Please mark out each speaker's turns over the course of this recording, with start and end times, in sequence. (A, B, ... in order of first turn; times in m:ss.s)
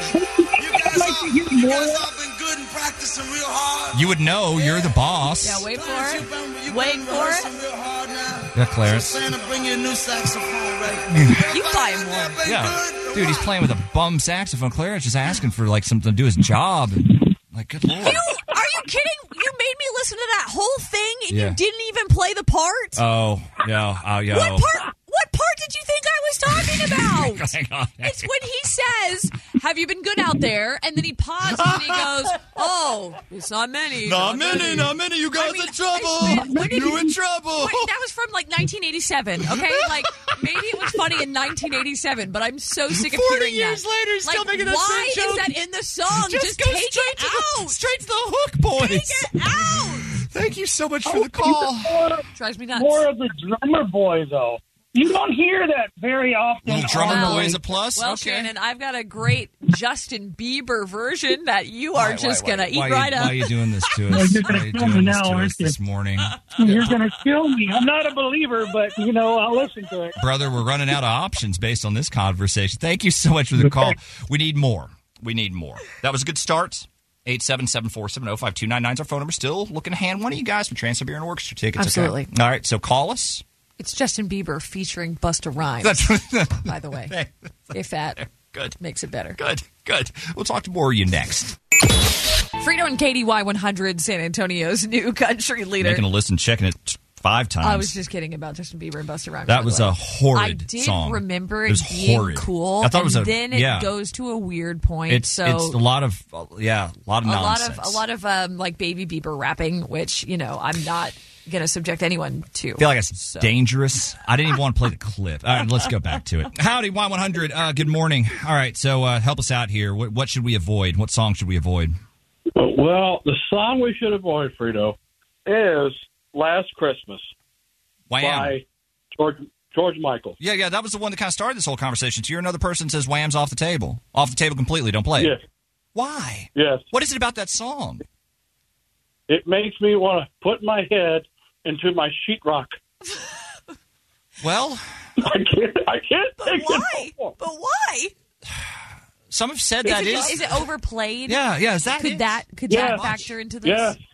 0:00.1-0:02.1 A
0:00.6-0:05.1 B
0:03.9-0:05.7 C
0:05.4-0:07.5 D
0:05.7-0:13.5 B
0:08.5-0:09.2 C
0:11.1-0:11.5 C
0:11.5-0:12.4 D
0:12.4-0:18.2 C
0:17.9-0:23.0 D
0:21.3-0:21.6 C
0:23.0-0:24.7 C
0:24.3-0:27.5 D
0:26.5-0:28.3 C
0:28.0-0:47.8 D
0:31.5-0:32.4 C
0:34.0-0:37.9 C
0:36.2-0:37.1 A
0:39.4-0:40.3 C
0:40.9-0:41.2 C
0:42.9-0:45.6 C
0:46.1-0:52.0 C
0:48.8-0:50.1 D
0:51.0-0:52.2 A
0:52.3-0:53.1 D
0:52.8-0:57.6 A
0:56.6-0:58.5 C
0:56.8-1:03.5 D
1:01.9-1:06.9 C
1:04.1-1:05.8 A
1:06.6-1:10.2 A
1:10.2-1:23.4 C
1:13.6-1:13.9 A
1:21.8-1:22.3 D
1:23.8-1:27.1 D
1:25.8-1:28.8 C
1:27.7-1:28.2 D
1:28.8-1:29.4 D
1:29.4-1:31.6 C
1:32.6-1:36.0 D
1:35.8-1:37.9 C
1:37.6-1:45.8 D
1:39.5-1:43.9 C
1:45.1-1:48.0 C
1:47.2-1:53.5 D
1:52.8-2:02.0 C
2:02.6-2:07.3 E
2:08.1-2:08.6 C
2:08.2-2:10.4 E
2:10.4-2:15.4 C
2:15.9-2:18.0 C
2:16.5-2:16.8 E
2:19.3-2:22.8 E
2:24.4-2:24.8 C
2:25.2-2:27.3 E
2:26.4-2:28.1 D
2:28.5-2:30.4 C
2:29.8-2:31.4 D
2:30.0-2:30.2 E
2:31.3-2:33.2 C
2:31.9-2:34.0 D
2:32.7-2:33.1 E
2:33.6-2:34.0 E